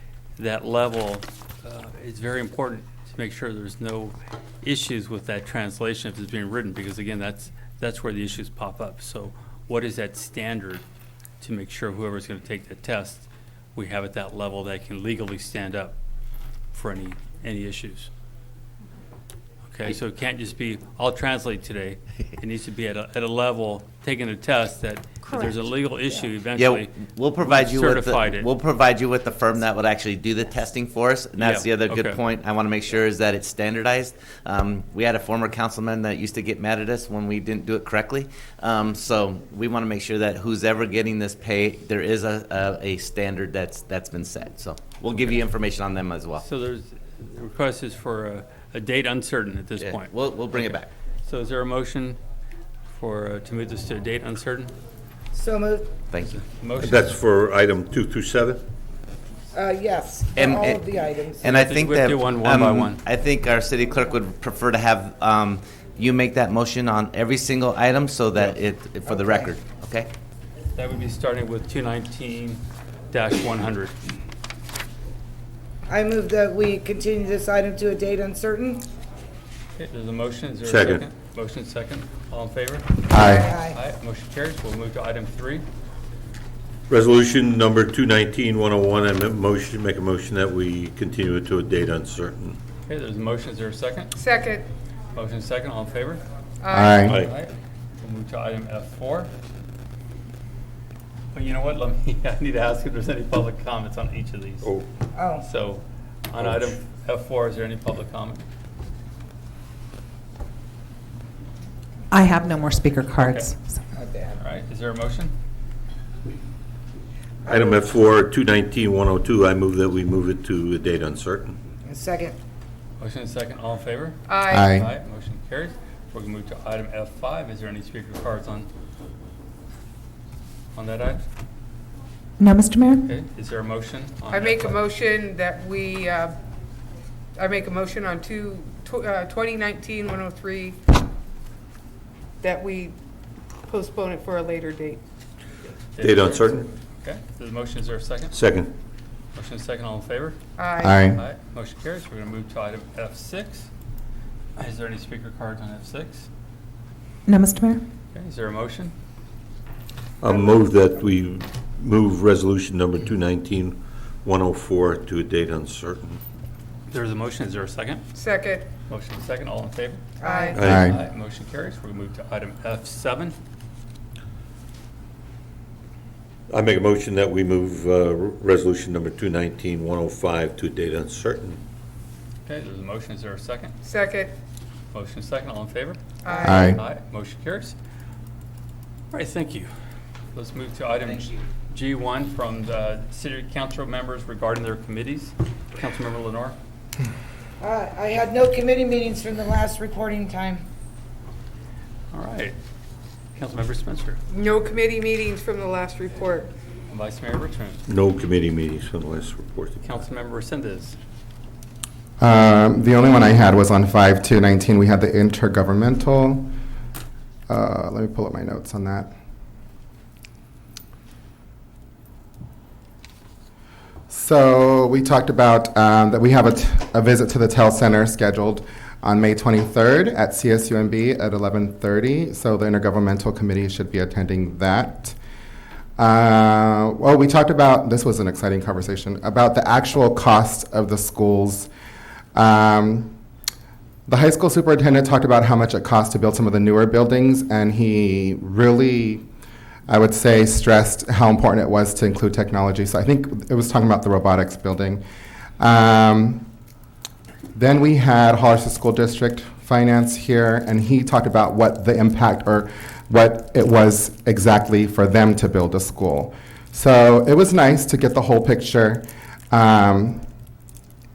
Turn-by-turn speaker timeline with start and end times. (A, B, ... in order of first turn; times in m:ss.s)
0:00.4-0:10.8 A
0:11.4-0:15.9 A
0:16.7-0:18.1 A
0:19.6-0:28.5 A
0:26.5-0:46.4 B
0:31.4-0:32.2 A
0:45.2-0:45.4 A
0:46.3-0:52.2 A
0:49.8-0:50.9 B
0:52.9-0:54.7 A
0:55.3-0:55.9 C
0:56.2-0:57.1 A
0:56.8-0:58.6 D
0:59.5-1:01.5 C
1:00.3-1:00.8 B
1:01.4-1:10.1 B
1:01.4-1:03.0 A
1:09.1-1:09.5 C
1:10.8-1:12.6 A
1:13.1-1:14.0 A
1:15.9-1:18.8 C
1:19.8-1:25.6 A
1:20.7-1:21.0 D
1:23.1-1:23.5 E
1:23.1-1:23.8 C
1:26.9-1:32.6 D
1:32.9-1:34.1 A
1:34.2-1:34.7 F
1:35.1-1:36.2 A
1:36.6-1:37.2 F
1:36.7-1:37.2 E
1:37.1-1:39.3 A
1:41.3-1:44.7 A
1:45.1-1:45.4 C
1:45.4-1:48.4 A
1:52.1-1:53.8 G
1:53.2-1:53.5 A
1:53.9-1:54.3 C
1:54.3-1:55.3 A
1:57.4-1:57.8 C
1:57.5-2:01.5 D
2:01.8-2:02.4 C
2:03.0-2:08.7 A
2:04.3-2:04.7 F
2:04.5-2:04.9 E
2:10.7-2:11.2 A
2:12.4-2:13.0 G
2:13.0-2:14.8 A
2:14.3-2:16.3 F
2:17.4-2:20.8 F
2:22.4-2:23.0 F
2:23.6-2:25.0 F
2:25.9-2:28.4 A
2:26.0-2:26.6 D
2:28.3-2:28.7 D
2:29.3-2:30.4 A
2:30.6-2:31.0 F
2:30.8-2:31.2 E
2:31.1-2:33.7 A
2:34.6-2:36.3 A
2:37.2-2:37.8 G
2:38.1-2:38.9 A
2:40.2-2:46.2 D
2:40.2-2:40.6 F
2:46.9-2:48.0 A
2:48.1-2:48.6 F
2:48.9-2:50.0 A
2:50.2-2:50.6 C
2:50.2-2:50.7 F
2:50.6-2:53.3 A
2:50.6-2:51.0 E
2:56.5-3:01.6 D
3:02.4-3:03.7 A
3:03.8-3:04.3 F
3:04.9-3:07.8 A
3:06.2-3:06.7 F
3:06.4-3:06.8 E
3:09.1-3:09.7 A
3:10.3-3:16.6 A
3:17.6-3:20.6 C
3:22.1-3:22.5 A
3:23.3-3:24.2 A
3:24.3-3:26.5 F
3:26.9-3:27.8 A
3:27.9-3:29.8 D
3:29.8-3:31.0 A
3:32.2-3:36.5 E
3:37.5-3:39.1 E
3:44.1-3:55.2 E
3:56.0-4:01.7 E
4:02.3-4:03.1 E
4:04.1-4:09.2 E
4:09.9-4:15.0 E
4:15.6-4:16.4 E
4:17.5-4:30.2 E